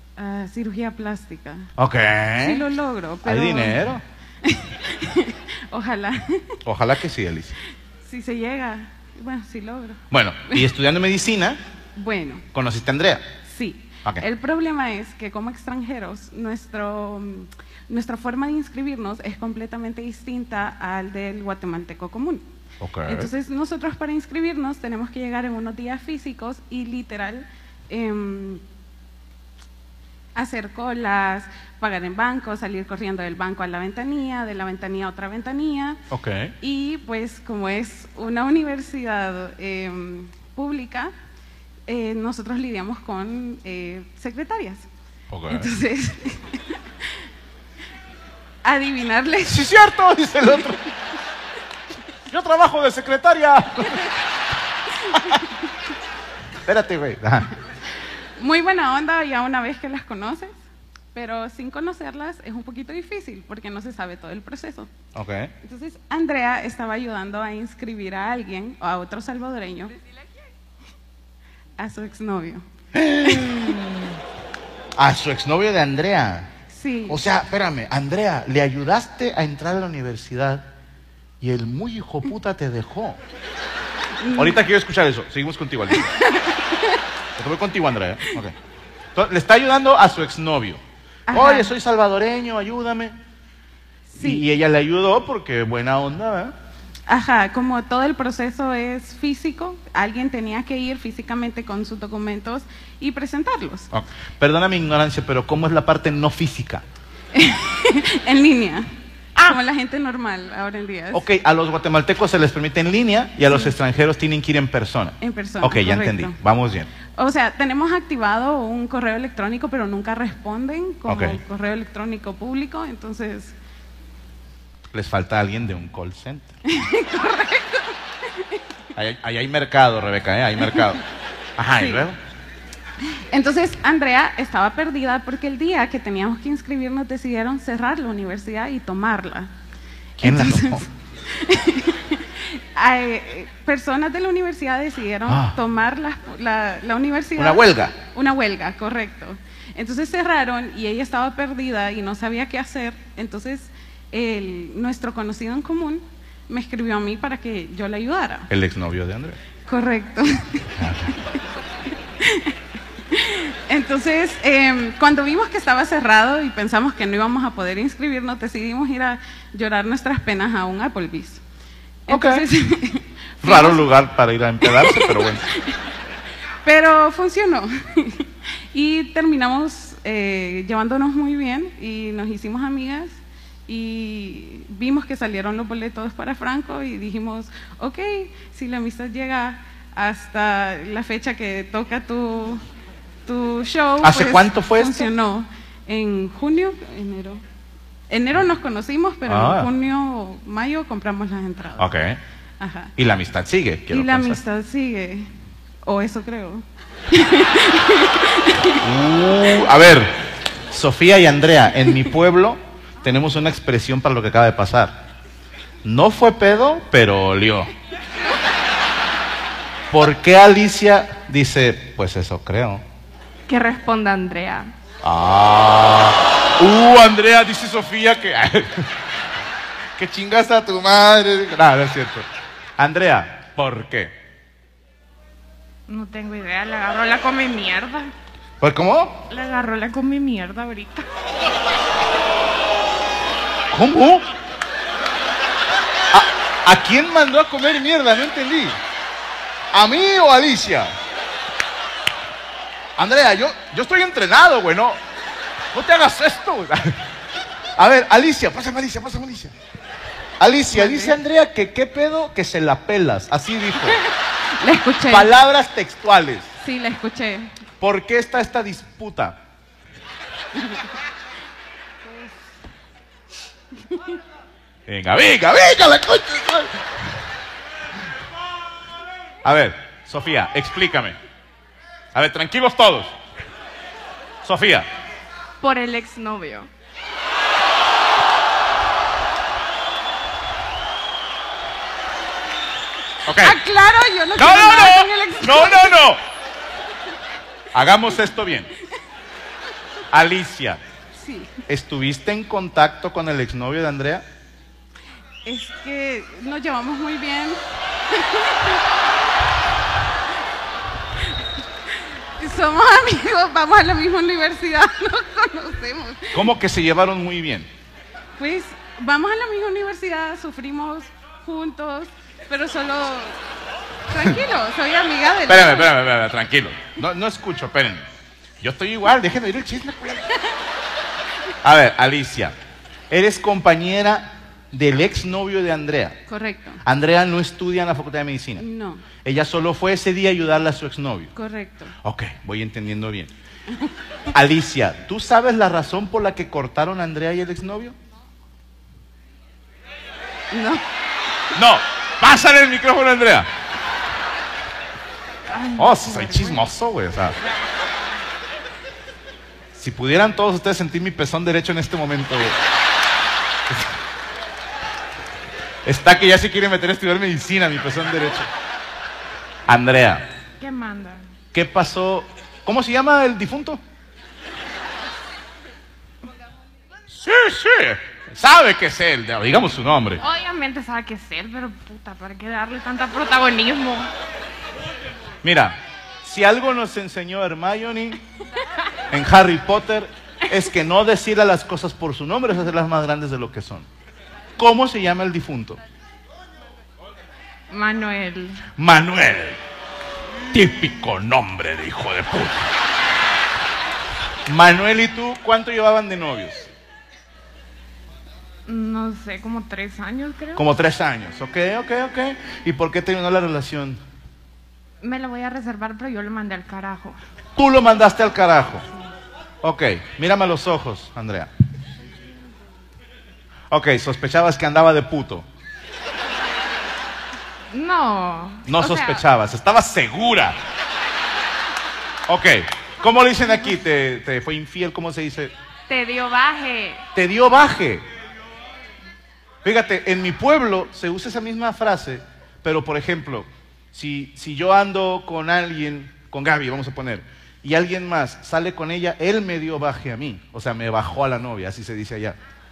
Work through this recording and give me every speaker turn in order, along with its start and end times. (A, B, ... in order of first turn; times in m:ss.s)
0:00.2-0:01.7 A
0:01.8-0:02.6 B
0:02.4-0:03.8 A
0:03.2-0:04.0 B
0:04.4-0:06.6 A
0:06.6-0:07.6 B
0:08.1-0:10.7 A
0:10.1-0:11.6 B
0:12.0-0:12.4 A
0:12.5-0:13.2 B
0:13.5-0:22.4 A
0:22.8-0:23.3 B
0:23.1-0:28.6 A
0:30.4-0:36.0 A
0:36.1-0:36.5 B
0:36.6-0:41.1 A
0:41.9-0:44.8 A
0:45.3-0:45.7 B
0:45.5-0:46.8 A
0:48.6-0:49.7 A
0:49.4-0:50.8 B
0:52.3-0:54.1 B
0:55.0-0:55.5 A
0:56.7-0:57.5 B
0:58.4-1:00.5 A
1:01.1-1:04.9 A
1:05.2-1:05.5 B
1:05.6-1:10.0 A
1:11.8-1:12.7 A
1:12.9-1:14.1 B
1:13.2-1:13.8 A
1:15.0-1:16.5 B
1:16.7-1:17.2 A
1:17.1-1:20.7 B
1:21.4-1:23.2 B
1:24.2-1:24.6 A
1:24.4-1:26.1 B
1:26.0-1:27.0 A
1:27.4-1:28.6 B
1:29.2-1:33.2 B
1:31.3-1:31.7 A
1:34.1-1:34.4 A
1:34.2-1:36.5 B
1:37.1-1:43.9 A
1:43.9-1:46.8 B
1:47.3-1:51.3 A
1:51.1-1:56.9 B
1:55.2-1:56.4 A
1:57.2-2:03.6 A
2:01.1-2:01.4 B
2:04.9-2:06.5 B
2:06.7-2:08.6 A
2:09.0-2:11.0 B
2:11.6-2:12.2 B
2:13.3-2:19.5 A
2:20.2-2:38.5 A
2:20.2-2:20.9 B
2:25.3-2:25.6 B
2:27.4-2:28.0 B
2:38.5-2:39.4 B
2:39.7-2:40.8 A
2:40.8-2:41.1 B
2:42.2-2:42.6 A
2:43.1-2:51.4 A
2:52.1-2:53.9 A
2:52.1-2:52.5 B
2:53.4-2:55.5 B
2:54.6-2:55.8 A
2:56.6-3:03.2 A
3:03.7-3:12.6 A
3:13.3-3:17.4 A
3:14.0-3:15.1 B
3:18.1-3:21.9 A
3:19.3-3:19.7 B
3:21.8-3:22.2 B
3:22.6-3:22.9 A
3:23.0-3:24.4 B
3:23.9-3:25.3 A
3:25.9-3:28.8 A
3:28.8-3:35.1 B
3:35.8-3:37.7 B
3:39.9-3:42.8 B
3:43.5-3:44.7 C
3:45.0-3:48.9 B
3:50.0-3:52.3 B
3:52.8-3:54.2 B
3:55.9-3:58.1 C
3:58.6-3:59.2 B
3:59.3-4:01.0 C
4:03.7-4:04.3 B
4:06.1-4:08.8 B
4:09.7-4:10.9 B
4:13.0-4:15.0 B
4:15.7-4:17.0 B
4:17.8-4:19.5 B
4:20.4-4:24.0 B
4:20.7-4:21.2 A
4:23.9-4:25.3 A
4:25.1-4:26.5 B
4:26.6-4:27.5 A
4:27.8-4:29.4 B
4:34.9-4:36.8 B
4:39.4-4:41.2 B
4:42.1-4:43.1 B
4:44.4-4:44.9 B
4:45.6-4:46.7 C
4:53.2-4:53.6 B
4:53.4-4:56.0 A
4:54.4-4:56.2 B
4:57.7-4:58.7 B
5:00.1-5:00.8 B
5:01.2-5:01.5 A
5:01.7-5:04.2 B
5:05.4-5:08.8 A
5:11.9-5:16.5 A
5:16.3-5:17.7 B
5:18.4-5:23.4 A
5:24.1-5:25.9 A
5:25.5-5:28.0 B
5:28.6-5:30.3 B
5:31.6-5:32.6 B
5:33.1-5:36.2 B
5:36.3-5:36.8 A
5:36.8-5:38.7 B
5:38.6-5:39.0 A
5:39.2-5:41.3 B
5:41.4-5:41.9 A
5:42.0-5:43.3 B
5:44.3-5:48.0 B
5:50.5-5:50.8 A
5:51.6-5:53.5 B
5:55.5-5:56.6 C
5:55.8-5:57.4 B
5:59.7-6:02.6 B
6:05.8-6:08.5 B
6:09.7-6:10.3 B
6:10.6-6:11.2 C
6:11.5-6:13.8 B
6:17.1-6:20.2 B
6:20.2-6:24.1 C
6:25.4-6:28.2 B
6:29.1-6:33.9 B
6:34.6-6:35.8 B
6:37.7-6:38.6 C
6:38.8-6:39.6 B
6:40.5-6:42.6 B
6:44.5-6:46.7 B
6:48.7-6:50.6 C
6:50.6-6:54.0 B
6:55.0-6:57.2 C
6:57.6-6:58.9 B
6:59.6-7:01.5 B
7:03.7-7:05.5 B
7:07.7-7:09.2 C
7:08.6-7:10.6 B
7:12.3-7:15.5 B
7:15.9-7:17.0 C
7:17.2-7:18.0 B
7:19.6-7:32.4 B